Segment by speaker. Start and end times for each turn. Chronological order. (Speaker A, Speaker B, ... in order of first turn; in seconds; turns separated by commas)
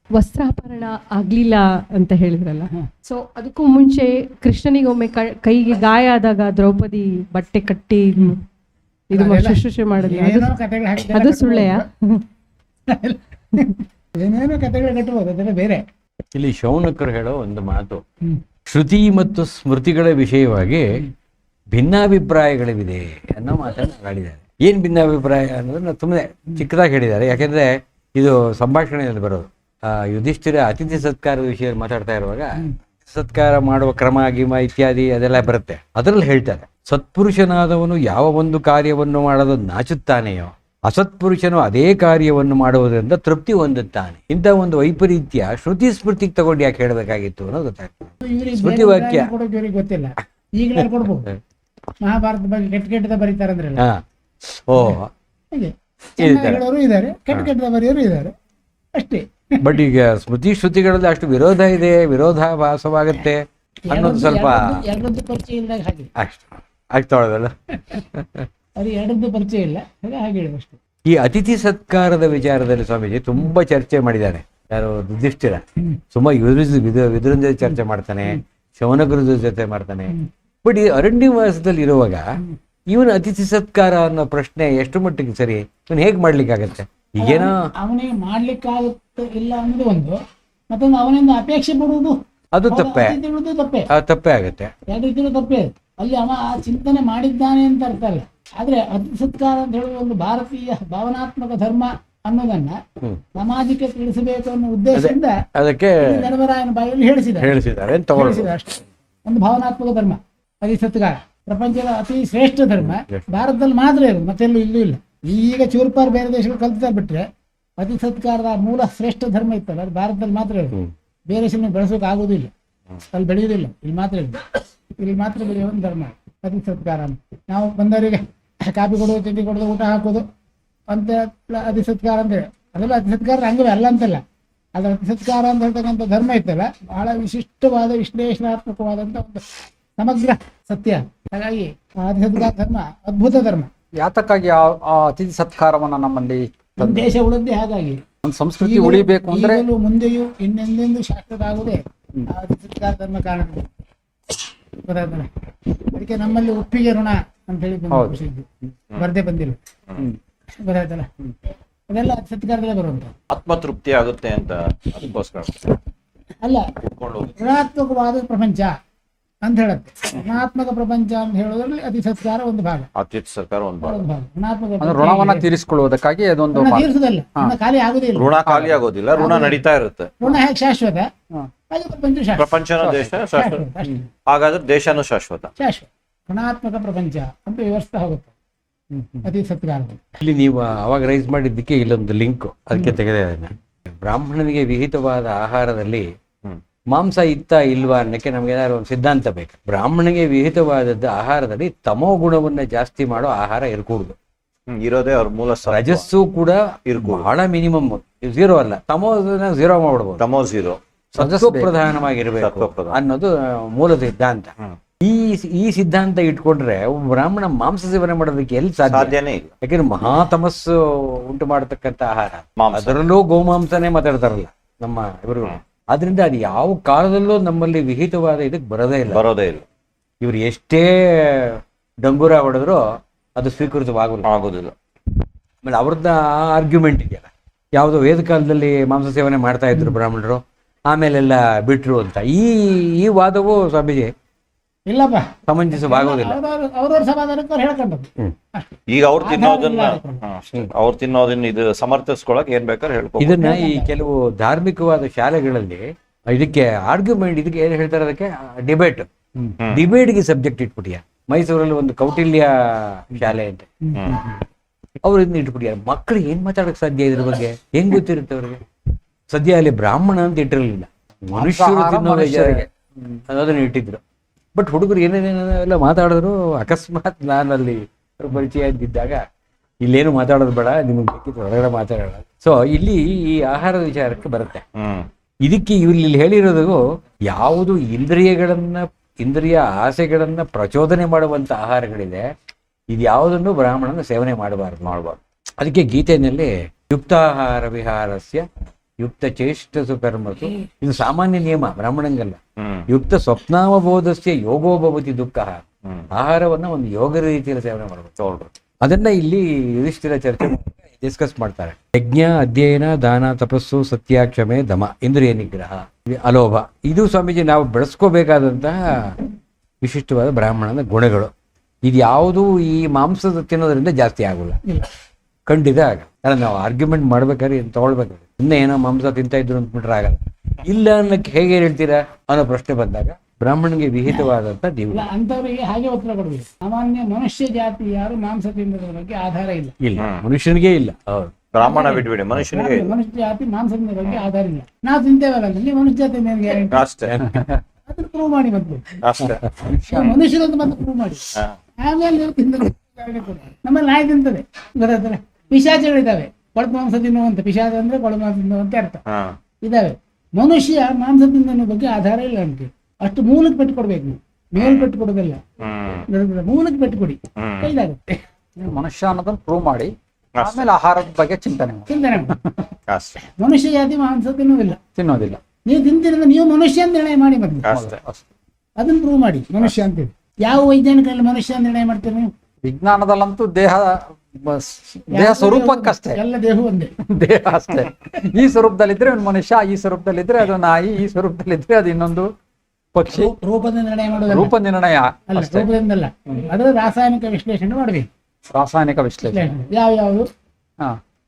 Speaker A: 0.1-8.4, Speaker A: 9.1-12.2, Speaker B: 9.1-11.8, Speaker B: 12.9-15.8, Speaker C: 16.3-18.0, Speaker C: 18.7-21.1, Speaker C: 21.7-49.3, Speaker B: 48.2-51.3, Speaker B: 52.0-53.8, Speaker C: 53.8-55.1, Speaker B: 55.5-58.3, Speaker C: 56.2-56.6, Speaker B: 59.0-59.7, Speaker C: 59.6-64.8, Speaker B: 63.9-66.1, Speaker C: 66.2-68.5, Speaker B: 68.8-70.8, Speaker C: 71.1-82.2, Speaker C: 82.9-87.6, Speaker B: 87.2-90.2, Speaker B: 90.7-92.2, Speaker C: 92.5-93.2, Speaker B: 92.7-93.9, Speaker C: 93.9-94.7, Speaker B: 94.9-102.8, Speaker B: 103.4-105.4, Speaker C: 104.9-106.3, Speaker B: 106.0-107.5, Speaker C: 107.4-108.5, Speaker B: 108.1-117.2, Speaker C: 112.8-113.2, Speaker B: 117.8-122.5, Speaker B: 123.1-124.4, Speaker B: 125.0-130.2, Speaker B: 130.9-134.2, Speaker B: 134.8-139.4, Speaker B: 140.0-143.7, Speaker D: 144.0-147.1, Speaker B: 146.8-148.0, Speaker D: 148.2-149.7, Speaker B: 148.6-153.7, Speaker B: 154.8-155.3, Speaker B: 155.8-158.5, Speaker D: 157.9-158.2, Speaker B: 159.0-159.6, Speaker B: 160.6-161.1, Speaker B: 161.9-163.2, Speaker E: 163.3-165.8, Speaker E: 166.8-167.3, Speaker B: 167.4-168.7, Speaker B: 169.4-172.9, Speaker E: 172.9-174.0, Speaker B: 173.8-175.5, Speaker D: 174.8-177.5, Speaker B: 176.5-178.4, Speaker E: 178.2-180.1, Speaker D: 178.5-178.8, Speaker B: 179.1-179.6, Speaker B: 180.2-181.1, Speaker B: 181.7-184.1, Speaker E: 182.4-183.6, Speaker E: 184.3-185.5, Speaker B: 185.6-188.3, Speaker D: 188.9-189.3, Speaker B: 189.2-190.2, Speaker C: 190.2-196.1, Speaker C: 196.9-204.2, Speaker E: 204.7-206.1, Speaker C: 205.7-210.2, Speaker E: 206.9-207.3, Speaker E: 210.2-210.8, Speaker C: 211.1-229.2, Speaker D: 211.2-211.7, Speaker E: 212.4-213.0, Speaker E: 218.9-219.5, Speaker E: 222.6-223.0, Speaker E: 229.1-229.6, Speaker C: 230.2-232.8, Speaker C: 233.4-234.3, Speaker E: 234.2-234.7, Speaker C: 235.6-244.1, Speaker B: 244.9-250.2, Speaker C: 245.5-246.4, Speaker E: 248.9-253.4, Speaker C: 253.2-259.1, Speaker B: 253.3-253.9, Speaker C: 259.7-263.7, Speaker B: 263.9-264.1, Speaker C: 265.0-268.6, Speaker C: 269.3-272.7, Speaker D: 271.3-273.2, Speaker C: 273.3-274.0, Speaker C: 274.6-279.2, Speaker C: 279.8-284.6, Speaker E: 284.8-285.1, Speaker C: 285.4-292.3, Speaker C: 292.9-298.4, Speaker C: 299.0-308.1, Speaker E: 302.6-302.9, Speaker E: 308.2-308.5, Speaker C: 308.8-319.2, Speaker C: 319.8-321.3, Speaker C: 321.9-324.6, Speaker C: 325.5-335.0, Speaker B: 334.9-339.8, Speaker C: 339.8-341.3, Speaker E: 340.0-340.2, Speaker E: 341.5-342.9, Speaker B: 341.6-346.9, Speaker E: 346.7-347.2, Speaker D: 347.3-347.6, Speaker B: 347.9-349.0, Speaker E: 349.0-349.4, Speaker D: 349.2-350.2, Speaker B: 349.9-359.0, Speaker E: 359.1-359.4, Speaker B: 359.6-365.4, Speaker E: 364.6-364.9, Speaker E: 365.6-366.0, Speaker B: 366.1-368.2, Speaker E: 367.4-367.7, Speaker D: 368.6-372.4, Speaker E: 370.4-370.7, Speaker B: 371.9-372.4, Speaker E: 372.9-373.2, Speaker B: 373.2-374.8, Speaker D: 374.9-375.4, Speaker B: 375.7-377.7, Speaker E: 377.6-378.0, Speaker D: 377.7-378.3, Speaker B: 378.8-382.3, Speaker D: 382.6-386.2, Speaker B: 385.1-386.9, Speaker D: 387.1-392.3, Speaker D: 392.9-393.3, Speaker B: 393.1-394.5, Speaker D: 394.3-395.7, Speaker B: 395.3-398.1, Speaker D: 398.5-399.5, Speaker B: 399.3-400.3